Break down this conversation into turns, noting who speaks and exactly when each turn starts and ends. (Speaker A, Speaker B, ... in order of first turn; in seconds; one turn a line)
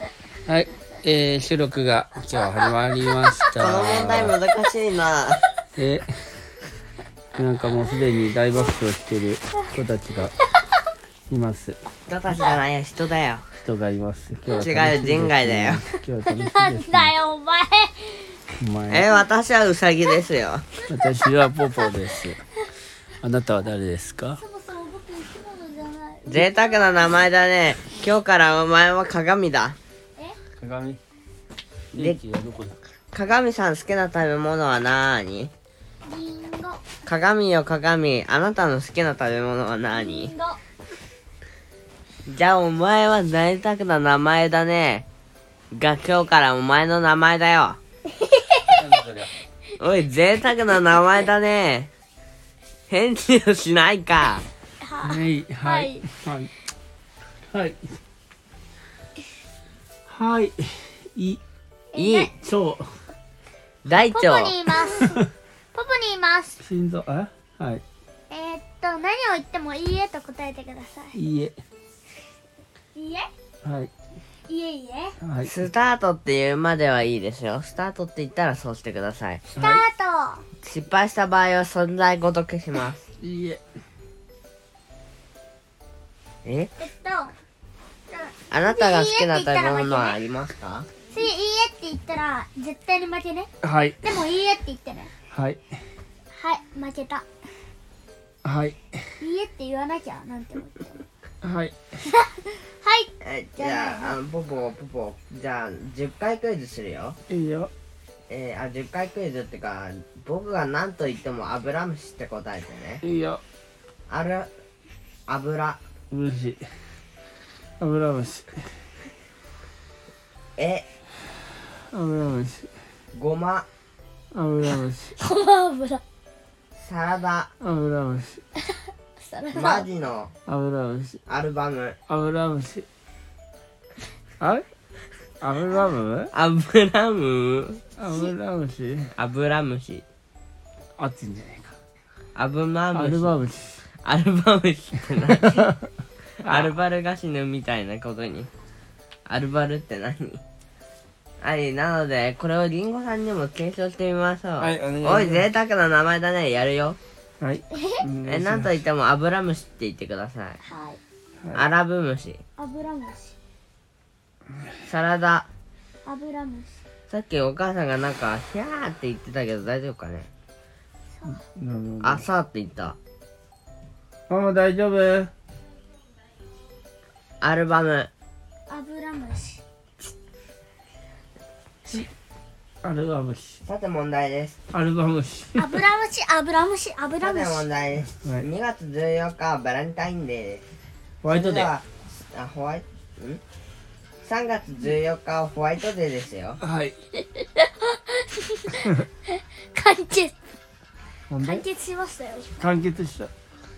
Speaker A: 0.5-4.3
Speaker B: 3.6-5.4
Speaker A: 5.8-6.4
Speaker A: 7.4-10.3
Speaker A: 11.3-11.8
Speaker B: 12.1-13.5
Speaker A: 13.6-17.1
Speaker B: 14.6-15.8
Speaker C: 16.2-18.4
Speaker A: 18.6-19.1
Speaker B: 18.9-20.6
Speaker A: 20.9-22.4
Speaker C: 21.6-21.9
Speaker A: 23.2-24.4
Speaker C: 24.4-27.2
Speaker B: 26.3-29.8
Speaker A: 30.6-31.0
Speaker A: 31.9-32.8
Speaker B: 31.9-32.2
Speaker B: 33.1-35.5
Speaker C: 36.0-36.8
Speaker B: 37.0-40.3
Speaker C: 39.9-40.6
Speaker B: 42.3-45.0
Speaker B: 45.7-47.8
Speaker C: 48.2-48.8
Speaker A: 48.7-49.3
Speaker B: 49.8-51.9
Speaker B: 52.9-54.4
Speaker C: 54.8-56.1
Speaker A: 55.0-56.5
Speaker A: 57.5-57.8
Speaker A: 60.0-61.4
Speaker C: 61.9-62.3
Speaker A: 62.0-62.9
Speaker B: 63.8-64.5
Speaker C: 64.1-66.6
Speaker A: 64.9-65.3
Speaker A: 66.6-67.8
Speaker C: 68.3-71.2
Speaker A: 71.1-71.5
Speaker C: 72.9-73.3
Speaker A: 73.6-73.9
Speaker C: 74.5-75.2
Speaker A: 75.2-75.5
Speaker B: 75.4-79.4
Speaker C: 79.5-80.4
Speaker B: 80.6-83.0
Speaker A: 83.2-83.6
Speaker B: 86.4-86.7
Speaker C: 86.8-87.3
Speaker C: 88.1-90.2
Speaker B: 88.5-90.9
Speaker C: 91.1-93.5
Speaker A: 93.6-94.0
Speaker C: 94.0-95.1
Speaker A: 95.3-95.6
Speaker C: 96.3-97.2
Speaker A: 98.4-99.0
Speaker C: 99.2-101.0
Speaker A: 101.4-101.7
Speaker C: 102.0-104.2
Speaker B: 103.2-107.2
Speaker A: 107.3-107.7
Speaker B: 108.3-113.0
Speaker A: 113.0-113.4
Speaker B: 114.1-114.5
Speaker B: 115.3-115.8
Speaker A: 116.1-116.6
Speaker A: 117.8-118.7
Speaker B: 120.6-120.8
Speaker A: 121.7-122.7
Speaker B: 123.1-123.7
Speaker A: 124.3-125.1
Speaker C: 125.1-126.0
Speaker B: 126.8-127.5
Speaker A: 127.6-128.4
Speaker C: 128.7-129.9
Speaker B: 129.5-130.3
Speaker A: 130.5-131.2
Speaker B: 131.3-132.0
Speaker A: 132.1-132.8
Speaker A: 134.4-134.6
Speaker A: 135.4-136.3
Speaker B: 136.3-137.8
Speaker A: 138.0-139.1
Speaker B: 139.2-140.0
Speaker A: 141.0-141.8
Speaker B: 142.3-143.4
Speaker A: 142.9-143.8
Speaker B: 144.0-145.7
Speaker B: 146.4-148.5
Speaker A: 146.4-146.7
Speaker B: 149.3-150.4
Speaker B: 151.4-157.0
Speaker A: 154.6-155.4
Speaker A: 157.4-158.7
Speaker C: 157.7-158.0
Speaker B: 158.2-160.6
Speaker C: 160.6-161.0
Speaker B: 161.5-162.4
Speaker C: 162.6-163.3
Speaker B: 164.8-165.5
Speaker C: 166.0-166.8
Speaker B: 167.1-170.3
Speaker C: 171.1-171.4
Speaker A: 171.5-172.2
Speaker B: 172.0-173.0
Speaker A: 174.3-175.3
Speaker B: 177.4-178.1
Speaker C: 178.7-179.6
Speaker A: 182.8-183.6
Speaker B: 183.6-184.6
Speaker A: 184.7-185.8
Speaker C: 185.6-187.6
Speaker B: 187.2-190.7
Speaker A: 191.2-191.7
Speaker B: 191.2-193.4
Speaker B: 194.2-196.6
Speaker A: 196.6-196.9
Speaker C: 197.2-200.3
Speaker A: 201.3-201.7
Speaker C: 201.4-202.5
Speaker A: 202.6-203.3